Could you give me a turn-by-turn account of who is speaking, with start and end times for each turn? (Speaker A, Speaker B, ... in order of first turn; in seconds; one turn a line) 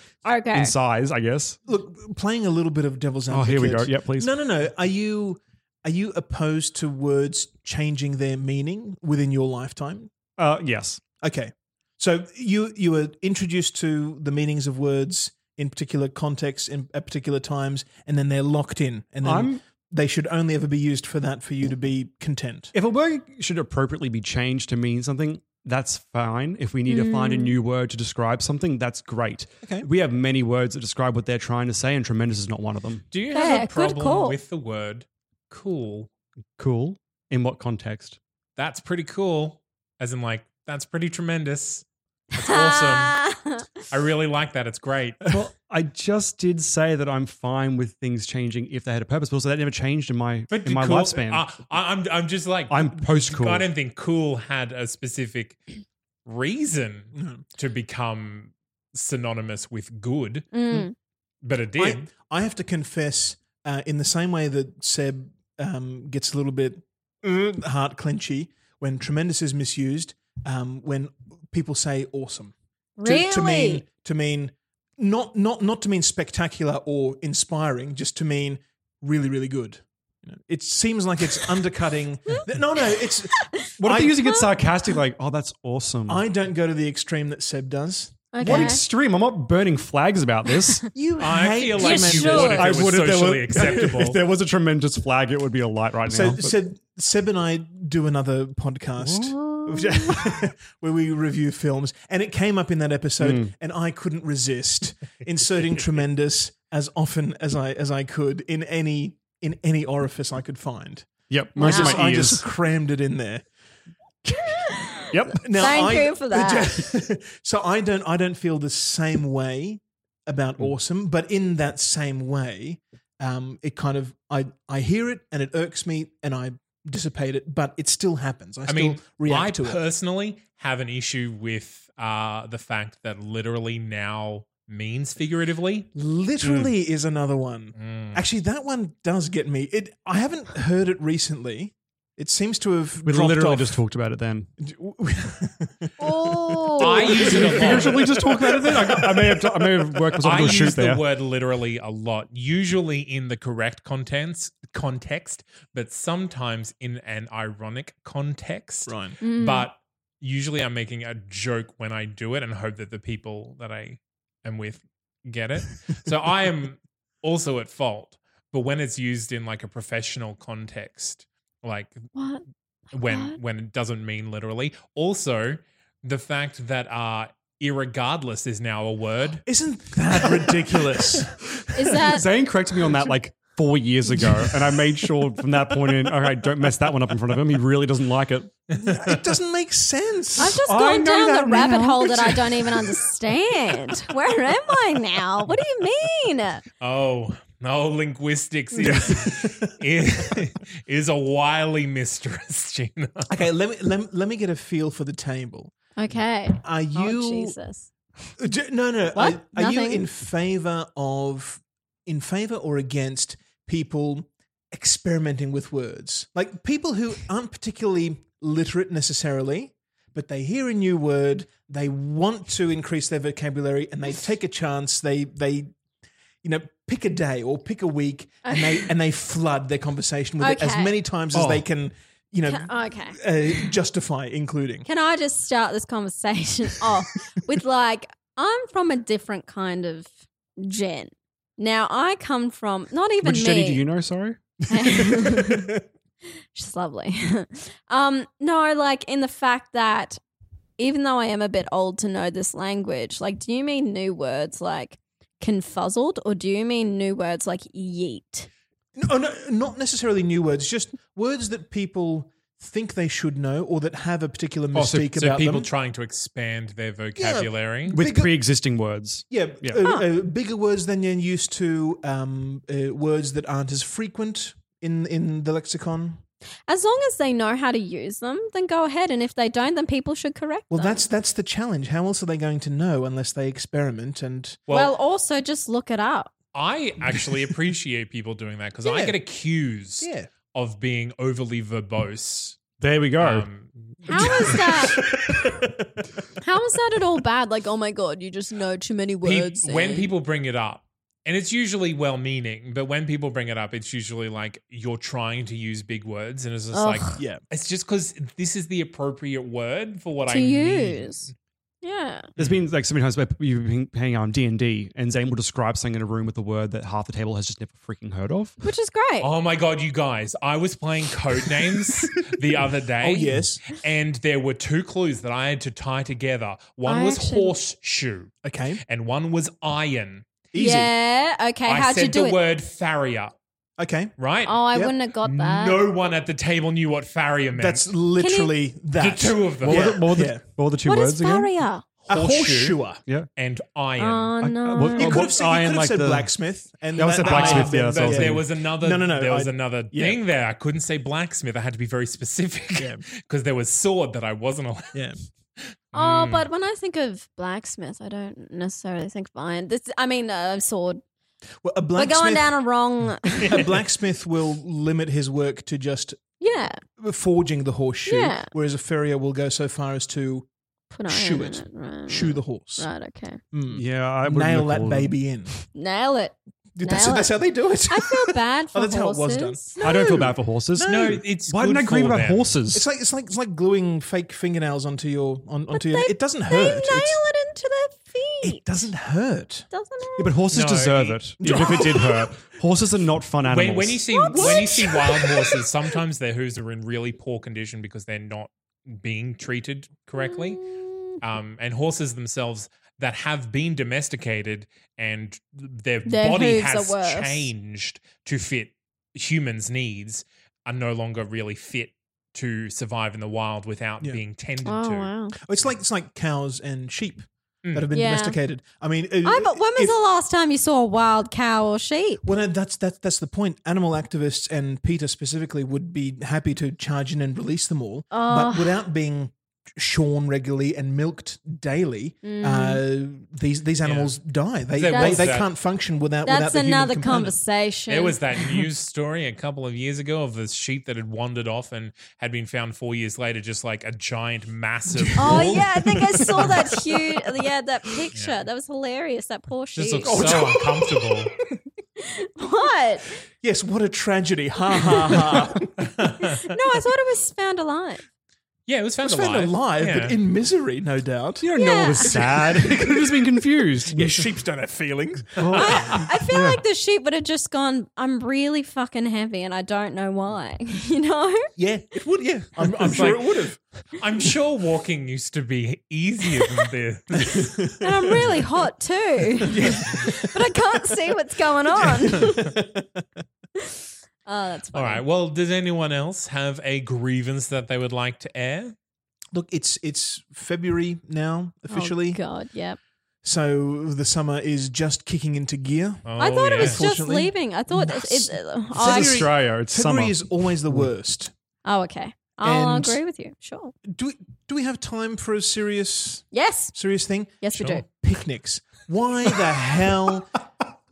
Speaker A: 0.2-0.8
Speaker B: 0.5-1.6
Speaker C: 1.7-10.1
Speaker B: 3.3-4.3
Speaker B: 10.4-11.0
Speaker C: 11.2-22.7
Speaker B: 19.2-19.6
Speaker B: 22.7-33.0
Speaker A: 26.9-27.6
Speaker D: 33.1-36.1
Speaker A: 33.3-34.4
Speaker B: 36.6-38.2
Speaker D: 38.6-43.2
Speaker A: 42.4-43.6
Speaker D: 43.9-45.2
Speaker B: 45.3-51.5
Speaker D: 50.5-55.6
Speaker B: 52.7-53.7
Speaker D: 56.3-60.6
Speaker C: 57.1-57.4
Speaker A: 60.5-60.9
Speaker D: 61.4-62.1
Speaker C: 61.8-84.4
Speaker A: 73.0-73.8
Speaker B: 83.8-86.2
Speaker C: 86.1-88.8
Speaker A: 88.3-88.8
Speaker B: 88.4-90.9
Speaker C: 90.9-93.0
Speaker D: 91.2-94.2
Speaker A: 91.8-92.6
Speaker B: 92.2-96.5
Speaker C: 93.5-94.0
Speaker C: 96.0-113.5
Speaker B: 99.0-99.7
Speaker B: 103.2-103.5
Speaker B: 111.3-112.5
Speaker A: 111.6-112.0
Speaker A: 114.7-116.7
Speaker B: 115.1-115.8
Speaker C: 115.3-129.8
Speaker D: 128.7-135.9
Speaker C: 135.9-143.8
Speaker D: 136.4-136.7
Speaker D: 137.8-138.2
Speaker B: 143.0-144.5
Speaker C: 144.6-150.2
Speaker A: 146.0-147.3
Speaker D: 146.8-148.1
Speaker B: 147.2-151.0
Speaker D: 150.2-172.1
Speaker C: 158.9-159.2
Speaker A: 159.2-159.7
Speaker A: 172.2-172.4
Speaker D: 172.9-179.4
Speaker A: 173.0-173.4
Speaker C: 179.4-181.4
Speaker B: 181.2-188.5
Speaker A: 181.7-182.2
Speaker C: 184.3-184.7
Speaker D: 188.7-189.2
Speaker C: 188.8-192.8
Speaker A: 190.4-196.6
Speaker B: 190.6-192.0
Speaker D: 196.8-203.3
Speaker C: 198.8-199.8
Speaker C: 203.3-205.7
Speaker A: 206.0-207.9
Speaker C: 206.6-207.6
Speaker C: 208.4-225.7
Speaker A: 209.2-210.0
Speaker C: 226.4-234.9
Speaker A: 228.4-228.9
Speaker A: 230.4-231.0
Speaker B: 231.3-231.7
Speaker A: 232.5-233.2
Speaker A: 234.9-243.9
Speaker B: 243.2-245.3
Speaker A: 244.7-245.7
Speaker A: 246.5-250.2
Speaker A: 250.8-258.5
Speaker C: 259.0-265.7
Speaker D: 264.8-268.0
Speaker B: 264.8-265.0
Speaker C: 267.2-268.4
Speaker B: 267.9-269.8
Speaker C: 269.3-276.2
Speaker A: 269.8-270.1
Speaker A: 276.7-281.0
Speaker C: 280.7-284.6
Speaker D: 284.7-284.9
Speaker A: 284.7-286.3
Speaker D: 286.5-292.6
Speaker C: 287.1-287.4
Speaker C: 288.8-289.2
Speaker C: 290.0-290.3
Speaker B: 292.8-293.5
Speaker D: 293.2-294.6
Speaker A: 294.1-295.0
Speaker C: 294.1-295.8
Speaker A: 296.4-300.1
Speaker D: 299.2-311.3
Speaker A: 306.7-307.2
Speaker A: 310.3-311.3
Speaker A: 311.8-312.3
Speaker D: 312.4-312.6
Speaker B: 312.4-318.6
Speaker A: 318.6-319.3
Speaker D: 319.2-330.3
Speaker C: 323.0-323.6
Speaker A: 326.9-327.6
Speaker C: 328.4-328.8
Speaker C: 330.5-330.9
Speaker A: 330.6-332.4
Speaker D: 331.7-333.3
Speaker C: 333.8-334.1
Speaker D: 334.2-337.9
Speaker A: 334.5-335.8
Speaker C: 337.5-340.4
Speaker A: 338.2-338.6
Speaker D: 339.0-340.0
Speaker B: 339.6-341.5
Speaker A: 340.9-341.8
Speaker C: 342.1-343.0
Speaker D: 342.1-342.8
Speaker D: 343.4-344.4
Speaker A: 344.0-345.2
Speaker B: 344.4-346.3
Speaker C: 344.9-350.2
Speaker B: 346.9-348.4
Speaker D: 347.2-355.1
Speaker C: 352.8-353.0
Speaker C: 354.9-355.2
Speaker D: 355.9-356.5
Speaker A: 355.9-361.0
Speaker C: 361.6-362.6
Speaker A: 362.0-363.6
Speaker C: 363.4-366.2
Speaker A: 366.4-366.8
Speaker C: 367.0-370.5
Speaker A: 368.1-368.5
Speaker A: 370.9-373.4
Speaker C: 371.1-372.9
Speaker C: 373.5-375.5
Speaker B: 373.7-375.2
Speaker A: 375.8-377.4
Speaker C: 376.8-381.2
Speaker A: 377.9-379.8
Speaker B: 379.8-382.9
Speaker D: 380.9-382.5
Speaker C: 382.7-387.2
Speaker A: 385.7-388.6
Speaker C: 388.4-389.7
Speaker A: 389.7-390.3
Speaker B: 390.2-394.0
Speaker D: 390.5-392.0
Speaker C: 391.4-392.3
Speaker D: 393.4-400.6
Speaker A: 394.1-395.3
Speaker C: 394.3-395.6
Speaker A: 400.2-401.2
Speaker D: 401.2-415.1
Speaker A: 406.1-407.5
Speaker A: 414.6-415.4
Speaker C: 415.4-420.0
Speaker A: 417.9-418.4
Speaker A: 419.2-422.2
Speaker C: 422.2-437.4
Speaker A: 428.1-428.8
Speaker A: 432.2-432.8
Speaker D: 433.8-434.2
Speaker D: 434.7-435.5
Speaker A: 434.9-435.3
Speaker A: 436.2-438.2
Speaker D: 437.9-446.8
Speaker C: 444.9-446.9
Speaker A: 445.2-450.2
Speaker D: 449.8-451.4
Speaker C: 450.0-451.3
Speaker A: 452.0-453.2
Speaker C: 453.4-455.9
Speaker D: 455.8-456.5
Speaker A: 456.4-458.0
Speaker D: 458.7-460.2
Speaker C: 459.0-463.2
Speaker B: 461.4-464.2
Speaker A: 461.6-462.1
Speaker C: 463.9-466.1
Speaker B: 465.4-466.6
Speaker A: 465.6-471.5
Speaker C: 471.6-473.6
Speaker D: 472.8-473.4
Speaker D: 474.0-477.6
Speaker C: 477.3-478.2
Speaker A: 477.8-482.6
Speaker C: 479.4-480.2
Speaker C: 481.7-483.0
Speaker A: 483.6-485.1
Speaker D: 484.7-488.7
Speaker C: 489.3-492.2
Speaker A: 491.7-492.8
Speaker C: 493.2-501.3
Speaker D: 496.1-496.8
Speaker A: 496.2-499.3
Speaker B: 498.8-500.9
Speaker A: 501.6-503.7
Speaker C: 502.4-503.0
Speaker C: 503.9-510.4
Speaker A: 506.3-506.8
Speaker A: 507.4-507.9